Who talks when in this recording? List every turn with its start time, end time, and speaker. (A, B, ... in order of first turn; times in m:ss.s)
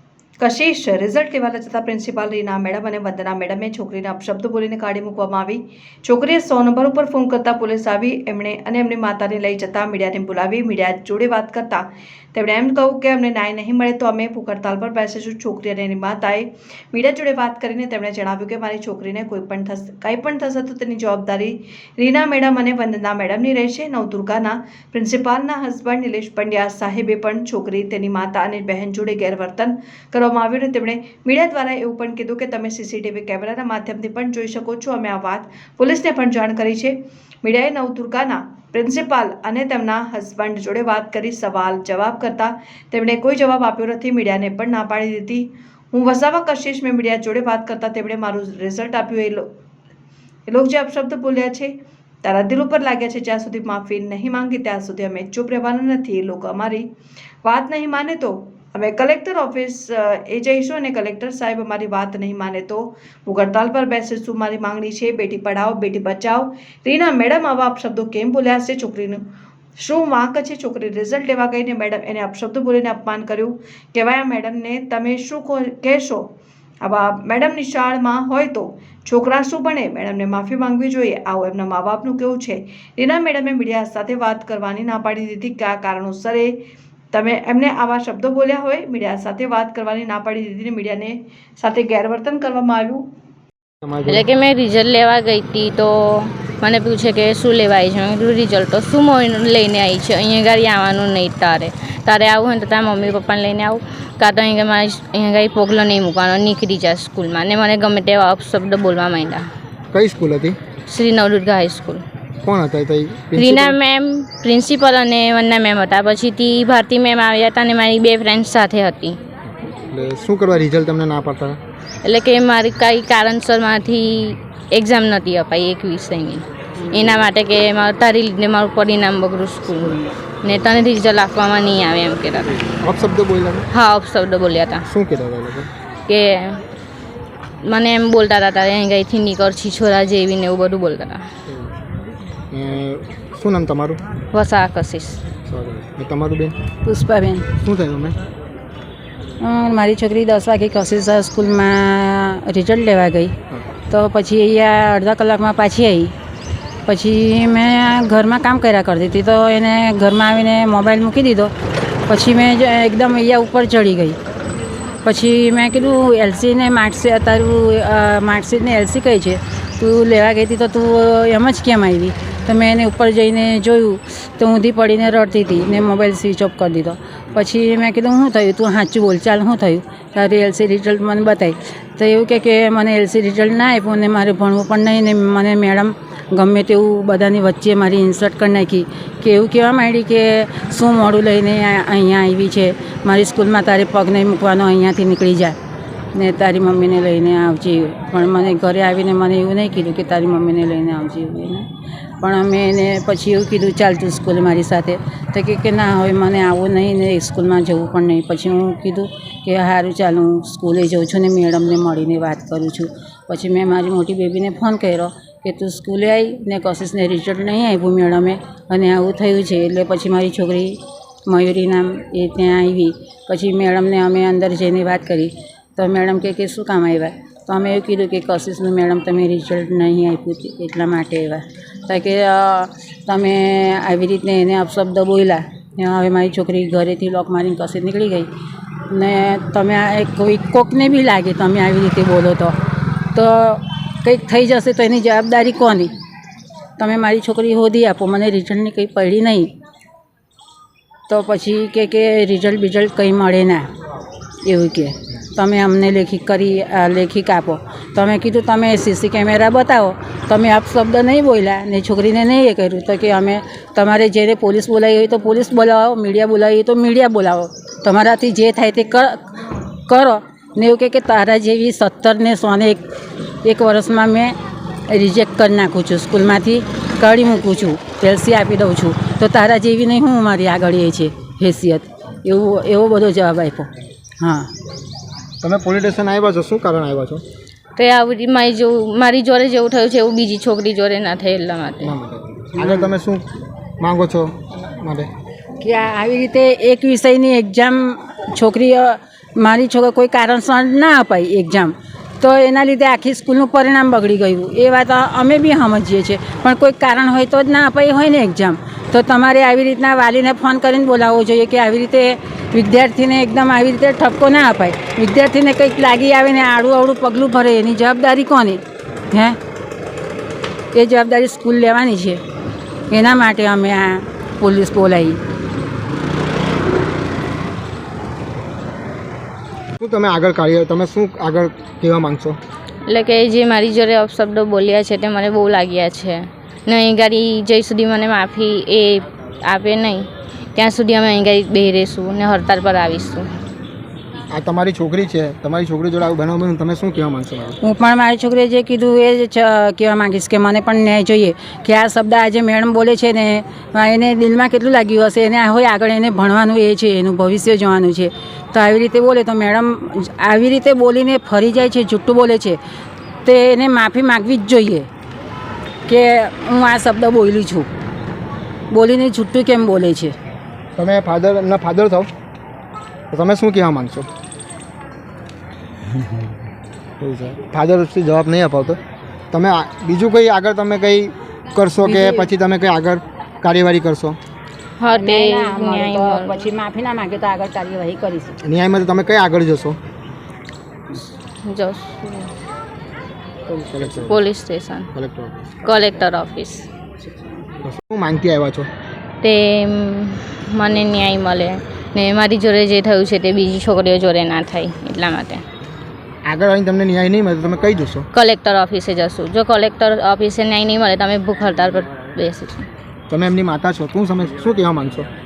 0:00.4-0:49.4 A
0:50.5-0:51.7 A
0:52.2-0:56.8 A
0:57.4-1:09.2 A
1:09.8-1:16.2 A
1:16.8-1:26.6 A
1:27.1-1:33.0 A
1:33.8-1:34.3 B
1:34.0-1:49.5 C
1:49.9-1:50.6 B
1:50.9-1:52.0 C
1:52.4-1:53.8 B
1:53.4-1:59.2 C
1:59.6-2:01.6 B
2:02.0-2:12.6 C
2:12.8-2:13.7 B
2:13.7-2:14.8 C
2:14.8-2:15.7 B
2:16.1-2:16.6 C
2:17.6-2:21.2 C
2:22.5-2:24.0 B
2:24.3-2:25.2 C
2:25.4-2:26.6 B
2:26.8-2:27.5 D
2:27.6-2:28.2 B
2:29.4-2:33.3 D
2:33.9-2:36.1 D
2:36.8-2:41.5 D
2:42.1-2:44.2 D
2:45.0-3:15.6 D
3:16.1-3:21.7 D
3:22.2-3:58.3 D
3:58.9-4:02.6 D
4:03.1-4:05.9 D
4:06.8-4:09.5 D
4:11.1-4:13.7 D
4:14.4-4:32.9 D
4:33.4-4:34.4 D
4:34.9-4:43.7 D
4:44.2-4:44.5 D
4:45.4-4:47.2 B
4:47.8-4:51.9 C
4:51.8-4:55.1 B
4:55.6-5:19.4 D
5:20.7-5:22.2 D
5:22.9-5:25.2 D
5:29.8-5:32.4 B
5:32.9-5:43.3 C
5:44.3-5:47.6 B
5:47.6-6:02.6 D
6:03.2-6:04.9 D
6:05.9-6:07.7 D
6:08.7-6:10.1 D
6:10.8-6:12.1 B
6:13.1-6:14.1 B
6:17.0-6:18.8 B
6:19.3-6:24.2 B
6:21.8-6:22.3 D
6:24.8-6:26.5 C
6:24.9-6:28.4 D
6:28.4-6:29.8 B
6:30.9-6:32.3 C
6:33.5-6:34.2 B
6:33.9-6:34.9 C
6:34.9-6:35.5 B
6:35.6-6:36.7 C
6:37.6-6:38.7 B
6:39.2-6:45.4 C
6:46.2-6:48.1 B
6:48.1-6:52.7 C
6:53.1-6:55.1 B